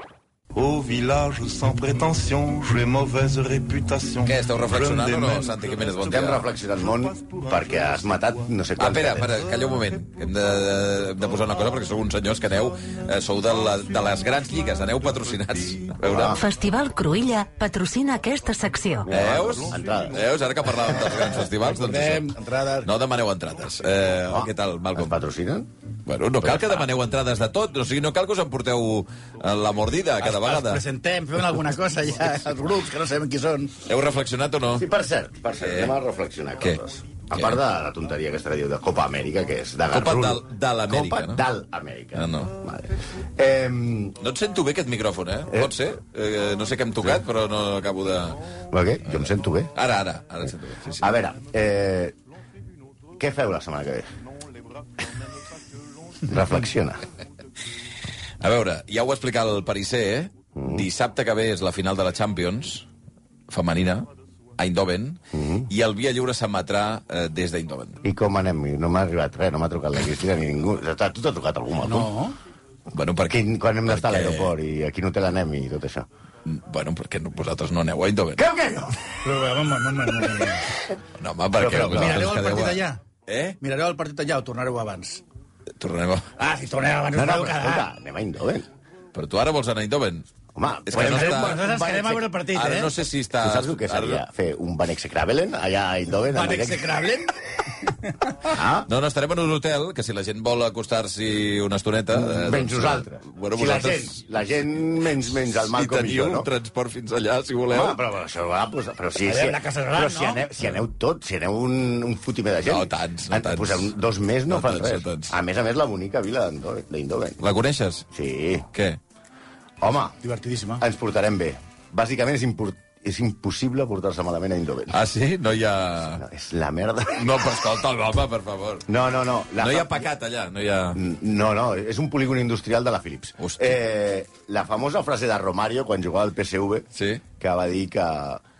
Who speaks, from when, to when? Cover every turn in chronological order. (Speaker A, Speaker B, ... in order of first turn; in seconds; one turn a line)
Speaker A: 0.5-8.5
Speaker B: 4.2-6.5
Speaker C: 6.0-9.3
Speaker B: 8.8-16.4
Speaker A: 9.4-9.8
Speaker A: 10.8-11.8
Speaker A: 12.9-14.3
Speaker A: 14.8-15.9
Speaker C: 16.0-16.4
Speaker D: 16.3-19.1
Speaker C: 19.0-20.2
Speaker B: 19.1-22.3
Speaker A: 19.2-20.8
Speaker E: 20.9-22.9
Speaker B: 22.8-25.2
Speaker C: 24.2-25.7
Speaker B: 26.1-30.8
Speaker C: 26.4-26.8
Speaker E: 30.2-33.7
Speaker B: 33.9-34.9
Speaker C: 34.7-44.2
Speaker B: 35.6-35.9
Speaker B: 39.9-41.4
Speaker B: 42.1-42.6
Speaker B: 44.2-48.4
Speaker C: 48.7-49.7
Speaker B: 49.0-51.1
Speaker C: 51.0-52.1
Speaker C: 53.2-54.1
Speaker C: 56.2-57.0
Speaker B: 58.4-62.9
Speaker C: 60.5-60.9
Speaker B: 63.5-68.0
Speaker C: 65.3-65.7
Speaker C: 68.0-72.1
Speaker E: 71.8-72.4
Speaker B: 72.9-74.5
Speaker C: 73.3-76.1
Speaker B: 76.4-78.4
Speaker C: 78.4-79.0
Speaker E: 79.2-80.7
Speaker B: 81.2-83.6
Speaker C: 81.6-82.3
Speaker E: 81.7-83.0
Speaker E: 83.6-85.2
Speaker B: 85.8-86.3
Speaker E: 86.4-87.9
Speaker C: 87.1-88.7
Speaker B: 89.1-90.3
Speaker C: 90.5-92.3
Speaker E: 90.9-92.9
Speaker B: 90.9-91.6
Speaker B: 92.5-94.2
Speaker C: 93.4-96.9
Speaker E: 96.3-98.3
Speaker C: 98.5-98.9
Speaker B: 98.9-104.2
Speaker C: 102.1-106.5
Speaker B: 105.7-108.0
Speaker C: 107.7-117.4
Speaker E: 109.2-110.4
Speaker B: 112.7-113.9
Speaker B: 114.5-115.3
Speaker B: 117.4-118.0
Speaker C: 118.1-118.7
Speaker B: 118.7-119.0
Speaker C: 119.8-120.2
Speaker E: 120.2-120.8
Speaker C: 120.8-125.0
Speaker B: 124.9-126.2
Speaker C: 126.2-127.5
Speaker B: 127.1-128.9
Speaker C: 128.9-130.1
Speaker B: 129.6-131.0
Speaker C: 130.9-136.8
Speaker B: 133.4-133.8
Speaker B: 136.9-137.2
Speaker C: 137.4-138.4